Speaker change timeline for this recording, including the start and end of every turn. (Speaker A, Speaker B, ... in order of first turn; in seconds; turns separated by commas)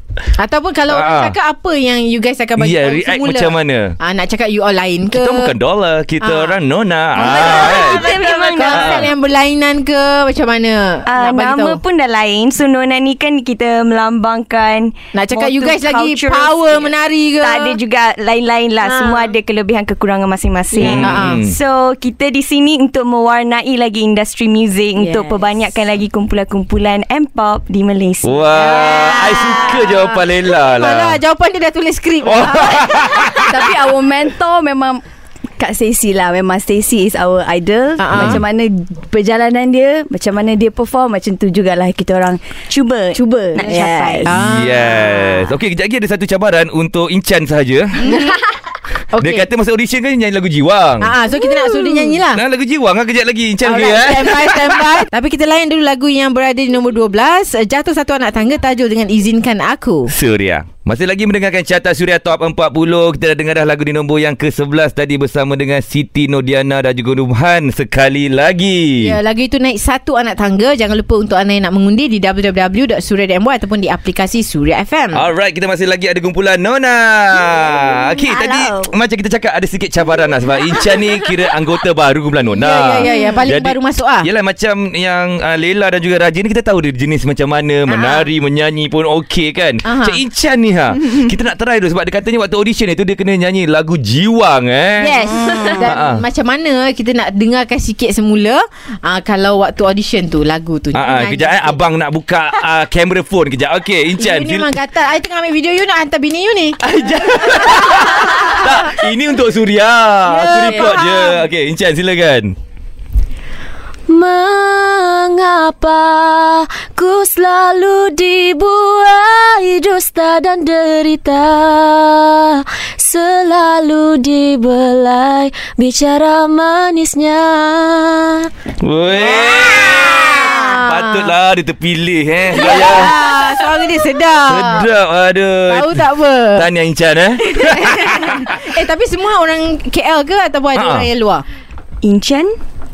Speaker A: 0.4-5.5, Speaker B: 0.9-1.4, Speaker B: 2.6-4.0, Speaker B: 5.1-8.1, Speaker A: 6.2-6.6, Speaker A: 7.2-11.8, Speaker C: 7.2-9.1, Speaker B: 8.7-9.1, Speaker C: 11.1-28.4, Speaker A: 15.1-17.8, Speaker D: 18.8-19.3, Speaker D: 20.7-21.2, Speaker B: 20.8-21.6, Speaker A: 21.0-21.4, Speaker E: 24.9-25.6, Speaker B: 28.2-31.2, Speaker A: 28.5-33.3, Speaker B: 32.2-33.7, Speaker E: 33.5-35.0, Speaker E: 35.6-42.4, Speaker A: 38.0-38.4, Speaker B: 38.1-38.4, Speaker C: 42.7-44.3, Speaker E: 43.1-44.4, Speaker A: 44.2-45.5, Speaker B: 44.2-48.1, Speaker A: 48.0-48.4, Speaker A: 49.1-49.5, Speaker B: 49.1-51.1, Speaker A: 51.0-52.4, Speaker B: 52.3-54.8, Speaker A: 53.6-60.1, Speaker B: 60.1-69.1, Speaker A: 69.0-75.2, Speaker B: 75.1-96.2, Speaker E: 77.7-78.6, Speaker A: 82.6-84.3, Speaker E: 83.1-83.4, Speaker A: 87.9-88.3, Speaker A: 89.8-90.2, Speaker A: 95.0-101.8, Speaker B: 100.9-104.7, Speaker A: 104.2-106.8, Speaker B: 106.8-112.5, Speaker A: 110.2-111.3, Speaker D: 114.1-128.5, Speaker B: 128.8-133.1, Speaker A: 129.1-131.3, Speaker A: 132.5-134.9, Speaker D: 133.0-133.3, Speaker B: 134.5-138.5, Speaker A: 135.7-136.7, Speaker A: 137.5-141.4, Speaker B: 140.8-141.1, Speaker C: 142.0-142.6